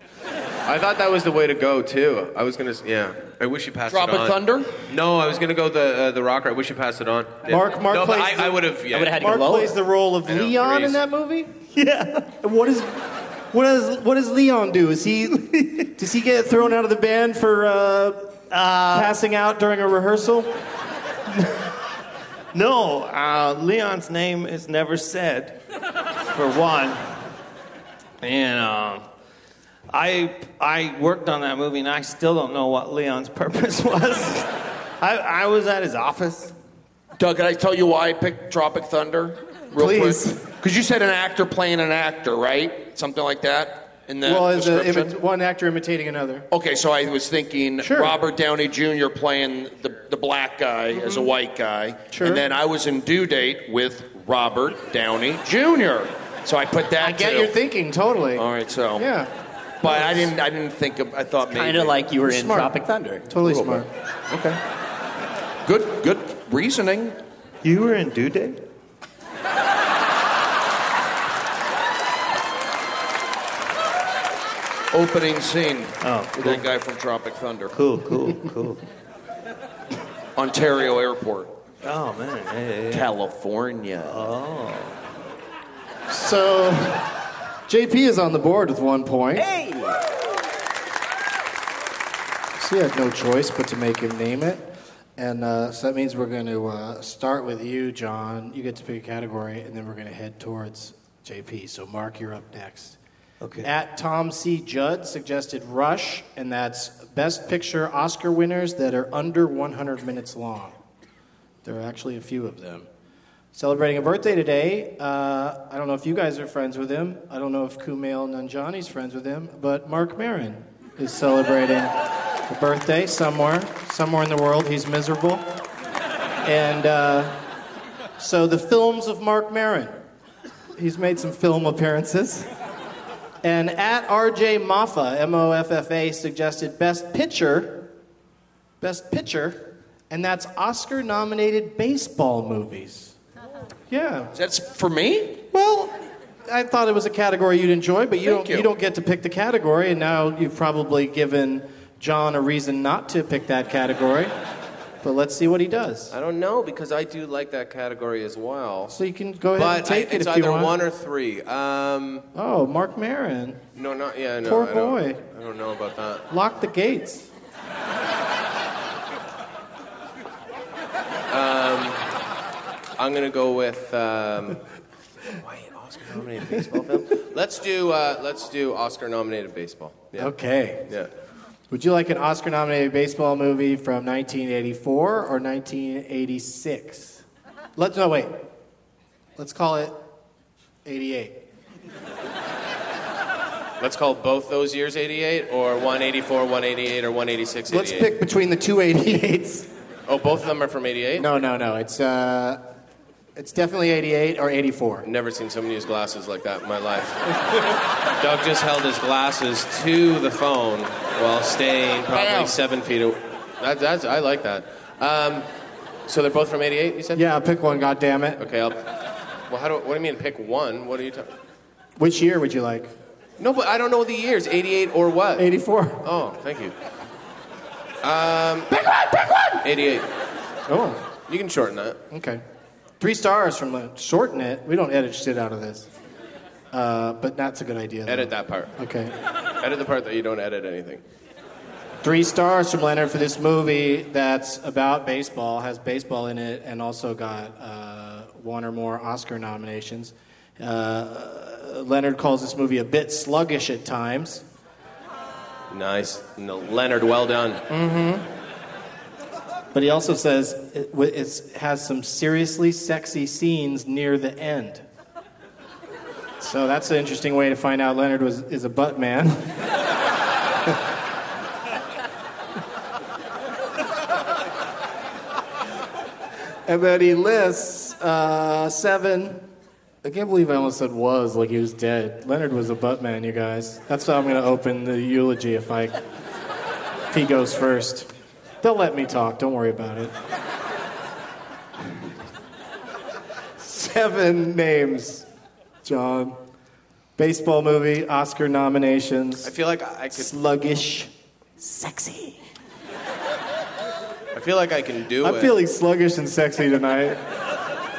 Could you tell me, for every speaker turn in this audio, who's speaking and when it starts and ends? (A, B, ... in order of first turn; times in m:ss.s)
0:00.7-0:09.3 A
0:03.9-0:04.7 B
0:07.4-0:11.6 C
0:08.9-0:09.8 D
0:10.3-0:11.0 A
0:11.7-0:12.4 E
0:12.4-0:20.6 C
0:18.5-0:19.1 E
0:22.5-0:25.6 E
0:26.3-0:27.1 E
0:28.2-0:29.1 E
0:29.9-0:36.5 E
0:37.2-0:45.1 B
0:39.7-0:40.5 C
0:44.2-0:46.5 C
0:46.5-0:57.5 B
0:47.8-0:48.2 C
0:52.1-0:52.4 C
0:57.0-0:59.3 C
0:58.3-0:59.1 B
0:59.8-1:02.0 B
0:59.8-1:00.3 C
1:01.5-1:03.3 D
1:02.2-1:02.8 C
1:03.3-1:03.9 C
1:04.3-1:04.6 B
1:05.6-1:07.2 B
1:07.6-1:08.6 E
1:14.9-1:17.7 B
1:16.0-1:16.7 E
1:17.7-1:18.8 E
1:20.4-1:21.5 B
1:21.8-1:23.1 E
1:22.9-1:24.2 B
1:24.1-1:25.0 E
1:26.1-1:27.1 C
1:27.7-1:29.5 C
1:29.4-1:30.0 D
1:32.6-1:43.0 C
1:43.4-1:43.7 E
1:43.6-1:50.8 C
1:51.6-1:52.9 C
1:53.5-2:02.0 C
2:02.5-2:05.5 C
2:06.4-2:07.4 C
2:08.2-2:10.0 C
2:10.8-2:12.5 C
2:13.4-2:17.9 C
2:18.8-2:23.2 C
2:23.9-2:24.3 C
2:24.3-2:25.4 B
2:25.5-2:25.9 C
2:26.5-2:34.3 C
2:28.2-2:28.7 B
2:35.0-2:36.1 C
2:36.1-2:38.9 A
2:38.9-2:40.8 C
2:39.6-2:42.3 A
2:42.3-2:43.6 C
2:43.8-2:46.2 A
2:44.4-2:45.2 C
2:46.3-2:47.3 C
2:51.3-2:52.1 A
2:53.0-2:54.6 A
2:55.3-3:00.3 A
3:00.2-3:00.9 C
3:01.7-3:07.2 C
3:07.8-3:08.4 C
3:09.4-3:10.0 C
3:10.8-3:11.4 C
3:13.8-3:18.1 A
3:17.7-3:19.7 C
3:20.1-3:21.3 A
3:21.2-3:22.6 C
3:23.4-3:25.1 C
3:25.0-3:27.2 A
3:28.2-3:35.5 A
3:32.1-3:32.5 C
3:36.1-3:37.2 A
3:37.2-3:38.4 C
3:38.4-3:38.8 A
3:39.5-3:41.3 A
3:42.0-3:42.9 C
3:43.4-3:45.5 A
3:45.4-3:46.0 C
3:46.0-3:46.7 A
3:48.0-3:48.9 A
3:49.6-3:50.1 A
3:50.7-3:51.0 C
3:51.3-3:52.0 A
3:52.1-3:52.4 C
3:53.0-3:55.9 C
3:56.7-3:59.2 C
3:58.1-3:58.7 A
3:59.6-4:01.0 A
4:02.0-4:14.4 C
4:15.7-4:17.6 A
4:17.7-4:18.2 C
4:19.7-4:24.8 C
4:26.4-4:29.6 C
4:36.7-4:39.4 C
4:40.0-4:46.0 C
4:47.1-4:48.1 C
4:48.6-4:50.1 C
4:53.6-4:55.3 C
4:55.8-4:56.4 C
4:57.2-4:59.5 C
4:59.4-5:00.3 A
5:00.1-5:02.3 C
5:01.8-5:02.2 D
5:04.3-5:05.5 A
5:05.2-5:07.2 C